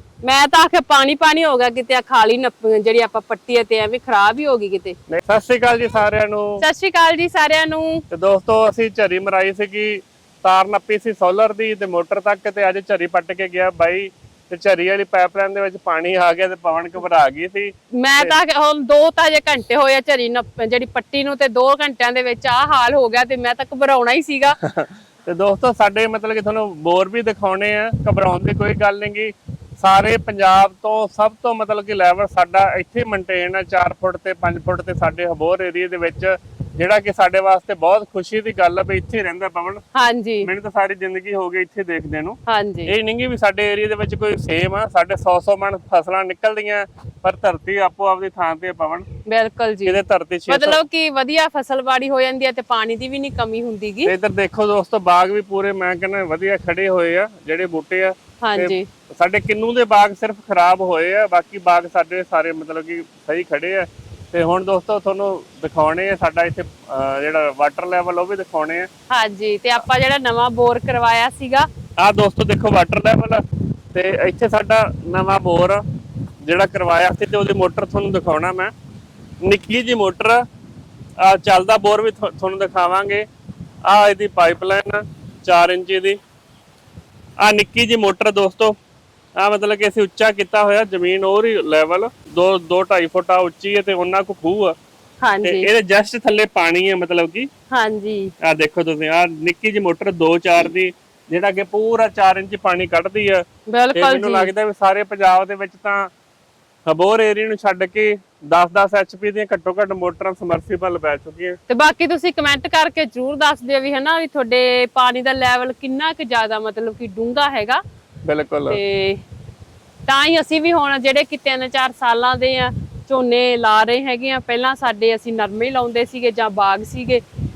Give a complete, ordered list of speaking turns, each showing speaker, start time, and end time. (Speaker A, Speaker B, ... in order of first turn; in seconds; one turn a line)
Speaker A: 0.2-5.0
Speaker B: 5.1-6.6
Speaker A: 6.6-8.0
Speaker B: 8.1-18.4
Speaker A: 17.9-24.6
Speaker B: 24.6-39.8
Speaker A: 39.9-40.5
Speaker B: 40.4-49.0
Speaker A: 42.5-42.9
Speaker A: 49.3-54.1
Speaker B: 49.9-50.8
Speaker B: 54.1-68.9
Speaker A: 58.4-58.9
Speaker A: 69.1-71.7
Speaker B: 72.0-75.8
Speaker B: 76.4-78.7
Speaker B: 79.4-80.4
Speaker B: 81.2-83.3
Speaker B: 83.8-86.2
Speaker B: 87.4-88.8
Speaker B: 89.4-94.8
Speaker A: 95.2-95.7
Speaker B: 95.4-97.5
Speaker A: 97.7-98.3
Speaker B: 98.4-106.1
Speaker A: 103.7-104.5
Speaker B: 106.9-111.6
Speaker A: 111.7-117.8
Speaker B: 118.3-118.8
Speaker A: 118.7-119.2
Speaker A: 120.1-127.2